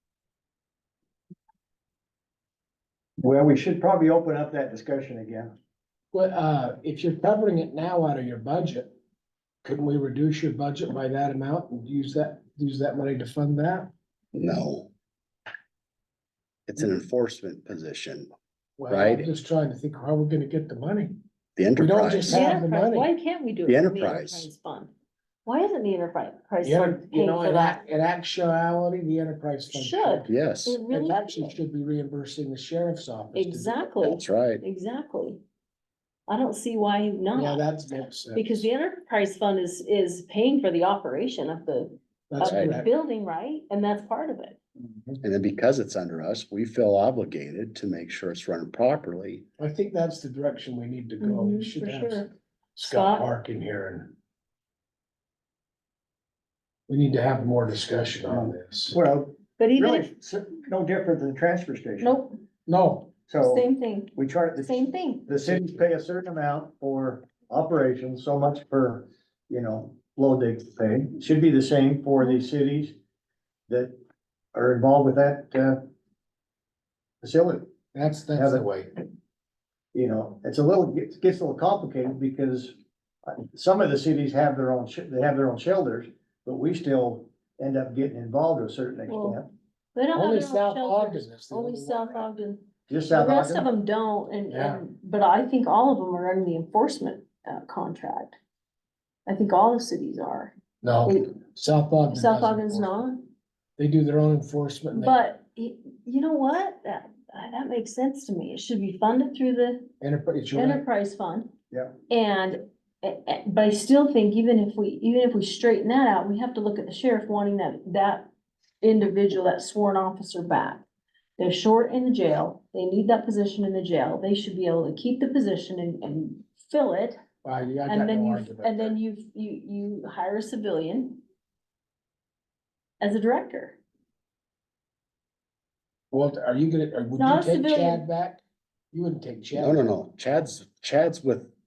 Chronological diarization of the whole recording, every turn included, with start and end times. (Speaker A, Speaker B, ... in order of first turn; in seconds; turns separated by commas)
Speaker A: 3.2-5.5, Speaker B: 6.1-8.9, Speaker B: 9.6-13.9, Speaker C: 14.3-14.9, Speaker C: 16.7-18.3, Speaker B: 18.8-21.2, Speaker C: 18.9-19.3, Speaker C: 21.6-22.5, Speaker B: 21.8-23.1, Speaker D: 22.3-24.9, Speaker C: 23.6-24.5, Speaker D: 25.4-27.8, Speaker B: 26.6-30.3, Speaker D: 29.7-31.6, Speaker C: 30.3-30.8, Speaker B: 30.9-33.8, Speaker D: 33.3-35.4, Speaker C: 34.0-34.6, Speaker D: 36.3-37.6, Speaker B: 37.3-38.7, Speaker D: 38.3-44.6, Speaker B: 42.3-42.9, Speaker C: 42.4-42.8, Speaker C: 45.2-49.4, Speaker B: 49.6-54.1, Speaker D: 51.2-52.3, Speaker D: 52.8-53.3, Speaker B: 56.9-59.0, Speaker A: 58.3-62.2, Speaker D: 59.6-60.1, Speaker D: 62.0-62.3, Speaker B: 62.7-63.1, Speaker A: 63.3-73.0, Speaker D: 63.4-65.4, Speaker B: 65.5-65.8, Speaker A: 73.7-73.9, Speaker A: 74.5-75.8, Speaker A: 77.2-77.7, Speaker B: 77.9-78.9, Speaker A: 78.4-78.7, Speaker A: 79.9-82.7, Speaker A: 83.2-89.5, Speaker D: 89.1-89.4, Speaker D: 89.9-98.3, Speaker B: 90.1-92.3, Speaker A: 92.9-93.7, Speaker B: 94.5-94.8, Speaker D: 99.2-100.5, Speaker B: 100.8-103.0, Speaker D: 101.0-101.3, Speaker D: 102.1-103.2, Speaker B: 103.8-105.2, Speaker D: 104.9-109.9, Speaker B: 110.0-110.8, Speaker D: 110.5-111.5, Speaker D: 112.1-118.3, Speaker D: 118.8-120.8, Speaker D: 121.4-127.2, Speaker B: 127.4-128.9, Speaker D: 127.9-131.2, Speaker D: 133.0-133.8, Speaker B: 136.1-139.9, Speaker D: 137.1-138.0, Speaker C: 139.5-141.5